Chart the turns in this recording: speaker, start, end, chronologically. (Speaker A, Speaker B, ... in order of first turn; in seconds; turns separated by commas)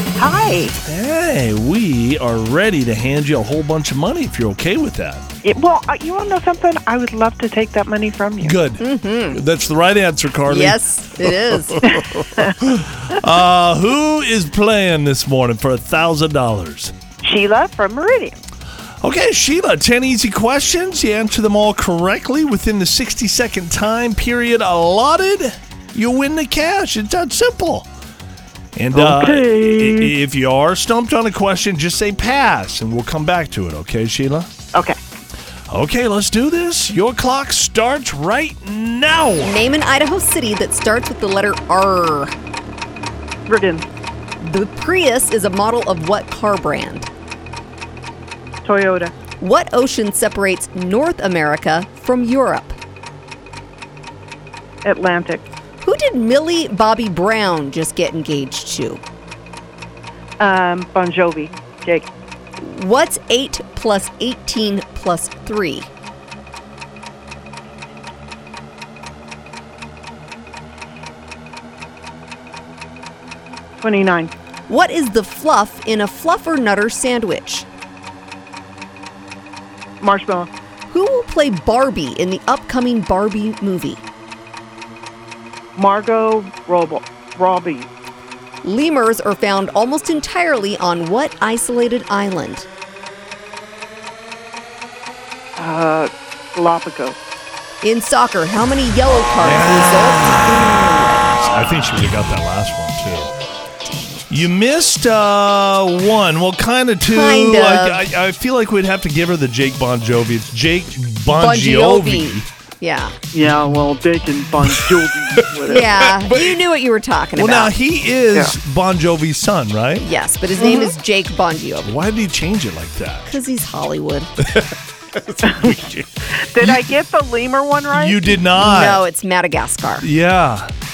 Speaker A: 0.2-0.8, Speaker B: 0.8-5.2, Speaker A: 5.4-8.6, Speaker B: 8.4-11.3, Speaker C: 8.8-9.4, Speaker C: 10.5-11.9, Speaker A: 12.0-12.5, Speaker B: 12.2-16.9, Speaker A: 17.2-18.4, Speaker B: 19.0-27.9, Speaker B: 28.8-34.5, Speaker A: 28.9-30.1, Speaker B: 35.7-39.6, Speaker C: 39.4-42.3, Speaker A: 43.5-43.9, Speaker C: 44.4-47.1, Speaker A: 48.6-49.1, Speaker C: 49.4-52.8, Speaker A: 54.8-55.5, Speaker C: 55.8-59.0, Speaker A: 60.4-62.1, Speaker C: 62.6-65.9, Speaker A: 73.8-74.3, Speaker C: 74.7-77.7, Speaker A: 80.0-80.5, Speaker C: 80.9-84.0, Speaker A: 85.8-87.9, Speaker C: 88.6-92.7, Speaker A: 95.6-97.2, Speaker C: 97.8-101.3, Speaker B: 99.4-100.8, Speaker B: 101.4-103.3, Speaker C: 103.9-104.2, Speaker B: 104.3-112.5, Speaker C: 107.1-108.0, Speaker C: 111.3-113.2, Speaker A: 113.3-116.1, Speaker B: 114.6-116.6, Speaker C: 115.7-117.8, Speaker B: 117.4-120.1, Speaker C: 120.0-121.9, Speaker A: 120.6-120.9, Speaker B: 121.8-123.3, Speaker C: 123.3-124.4, Speaker B: 125.2-126.9, Speaker A: 125.4-125.8, Speaker A: 126.3-128.4, Speaker B: 127.9-129.0, Speaker C: 128.6-130.1, Speaker B: 130.0-130.7